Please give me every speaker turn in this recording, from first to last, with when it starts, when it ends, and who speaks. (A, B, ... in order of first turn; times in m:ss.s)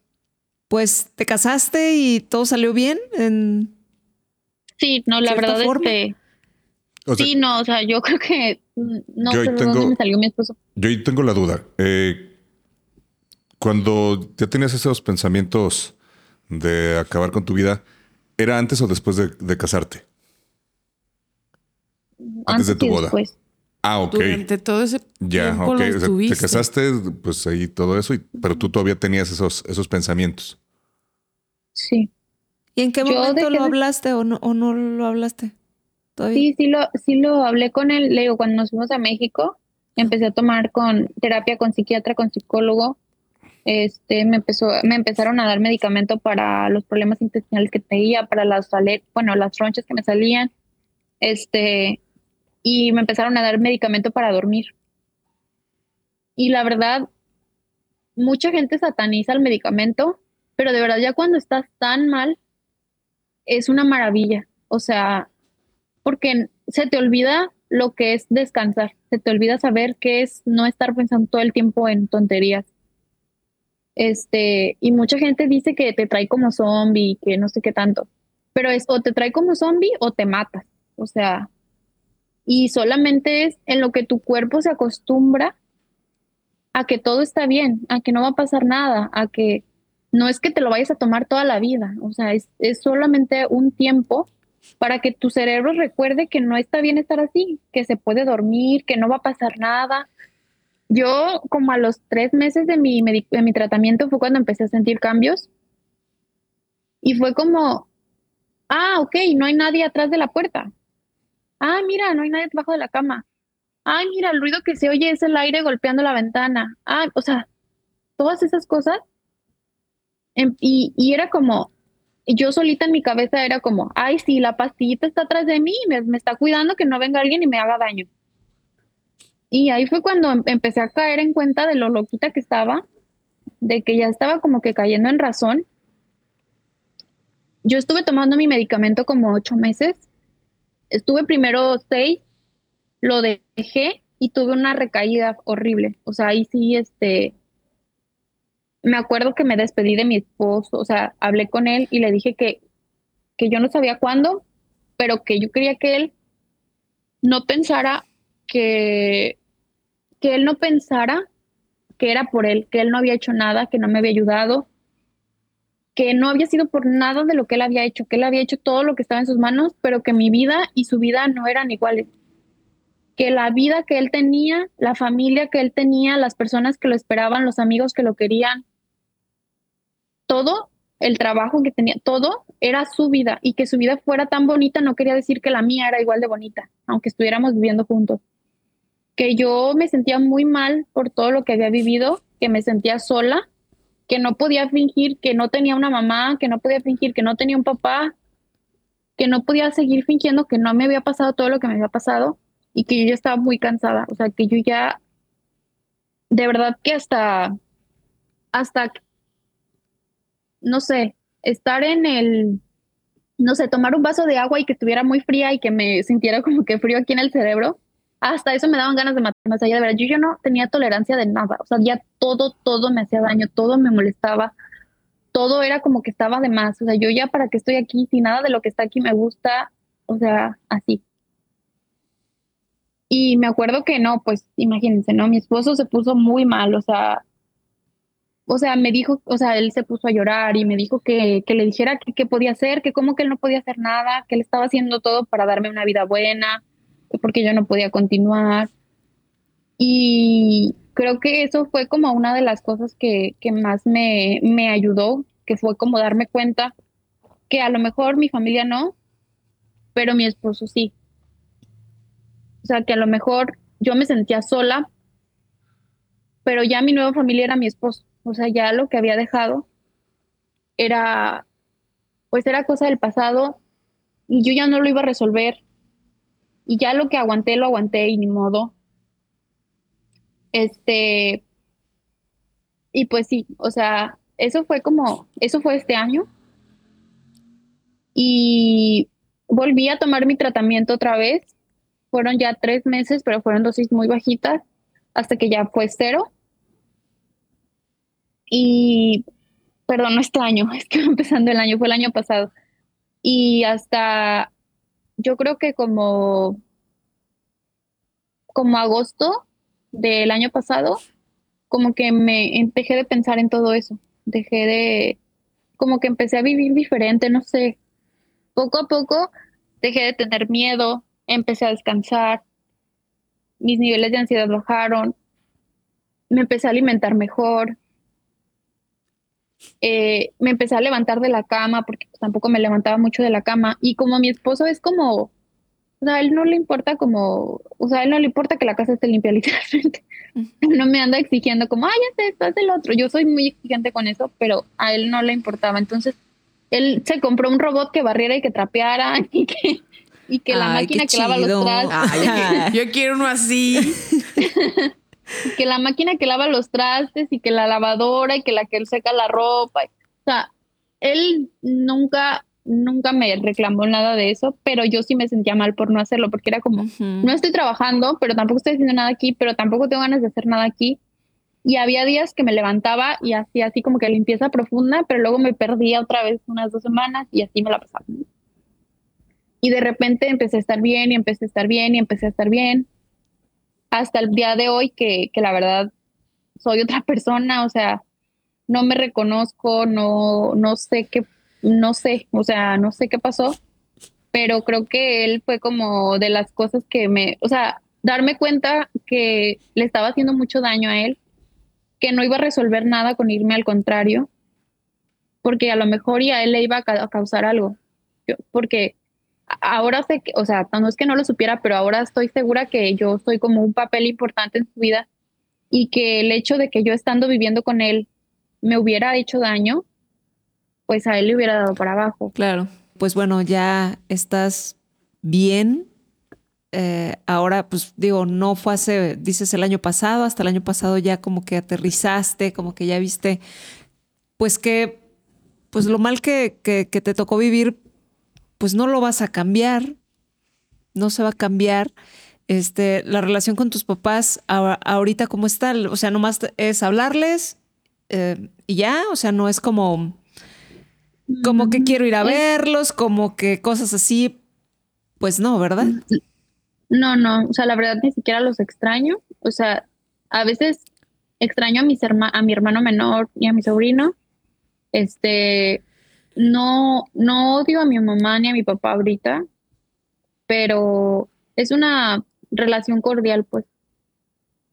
0:00.7-0:03.7 A
0:04.8-0:06.2 B
0:05.2-0:05.9 A
0:07.2-0:10.6 B
0:09.2-0:10.0 C
0:10.8-0:12.3 C
0:13.6-0:15.9 C
0:16.5-0:17.8 C
0:18.4-0:20.0 C
0:22.3-0:23.3 B
0:22.5-0:23.2 C
0:23.8-0:24.4 C
0:24.1-0:26.6 D
0:25.2-0:30.6 C
0:31.8-0:32.1 B
0:32.8-0:35.5 A
0:33.0-0:33.7 B
0:36.2-0:36.4 A
0:36.3-0:43.0 B
0:43.6-0:50.5 B
0:51.2-0:52.0 B
0:52.6-0:54.7 B
0:56.4-0:57.1 B
0:58.2-1:02.4 B
1:03.5-1:05.3 B
1:06.0-1:12.6 B
1:14.0-1:21.5 B
1:22.5-1:25.5 B
1:26.7-1:34.3 B
1:34.8-1:40.1 B
1:40.9-1:45.5 B
1:47.0-1:47.9 B
1:48.7-1:50.7 B
1:51.6-1:53.2 B
1:53.8-1:57.4 B
1:58.2-1:59.0 B
2:00.4-2:01.7 B
2:02.2-2:08.1 B
2:09.5-2:12.8 B
2:13.6-2:15.6 B
2:17.6-2:20.0 B
2:20.9-2:22.2 B
2:23.0-2:27.3 B
2:28.8-2:32.6 B
2:33.4-2:34.4 B
2:35.0-2:36.1 B
2:37.2-2:39.4 B
2:40.2-2:41.2 B
2:42.0-2:44.7 B
2:45.9-2:52.1 B
2:53.2-2:58.6 B
3:00.3-3:08.2 B
3:09.2-3:13.4 B
3:14.1-3:18.1 B
3:19.2-3:25.0 B
3:26.3-3:27.5 B
3:28.5-3:29.0 B
3:30.6-3:32.6 B
3:33.4-3:44.5 B
3:45.3-3:51.0 B
3:53.1-3:57.2 B
3:58.5-4:08.7 B
4:09.8-4:16.7 B
4:17.5-4:18.9 B
4:19.9-4:20.9 B
4:22.6-4:24.9 B
4:26.4-4:29.6 B
4:30.8-4:31.4 B
4:32.3-4:33.6 B
4:34.3-4:35.6 B
4:36.7-4:38.7 B
4:40.5-4:41.4 B
4:42.9-4:46.3 B
4:48.1-4:51.5 B
4:52.1-4:54.6 B
4:55.1-4:56.3 B
4:58.5-4:59.2 B
4:59.9-5:02.5 B
5:03.2-5:04.5 B
5:05.2-5:06.6 B
5:08.5-5:11.0 B
5:11.7-5:15.2 B
5:15.8-5:17.8 B
5:18.6-5:19.3 B
5:19.8-5:22.4 B
5:23.6-5:25.1 B
5:26.3-5:27.8 B
5:29.8-5:35.3 B
5:36.0-5:40.0 B
5:40.6-5:46.1 B
5:46.7-5:52.7 B
5:50.5-5:52.8 A
5:51.9-5:54.0 D
5:53.9-5:54.4 A
5:54.4-5:54.9 B
5:55.5-6:00.5 B
6:01.0-6:11.0 B
6:06.8-6:07.4 A
6:11.6-6:18.2 B
6:19.6-6:22.9 B
6:23.9-6:25.9 B
6:26.6-6:28.0 B
6:28.7-6:33.6 B
6:34.3-6:41.2 B
6:42.0-6:44.3 B
6:45.4-6:48.9 B
6:49.5-6:55.0 B
6:55.7-6:58.1 B
6:58.6-6:59.8 B
7:00.9-7:02.3 B
7:02.3-7:05.9 A
7:06.7-7:13.4 A
7:14.4-7:15.0 A
7:15.7-7:17.8 A
7:18.6-7:20.0 A
7:20.9-7:21.9 A
7:22.5-7:27.6 A
7:28.1-7:30.2 A
7:31.3-7:32.4 B
7:31.4-7:34.4 A
7:35.2-7:36.0 A
7:35.8-7:36.2 B
7:36.9-7:40.8 B
7:41.4-7:44.1 B
7:44.9-7:45.8 B
7:46.4-7:49.4 B
7:50.5-7:53.7 B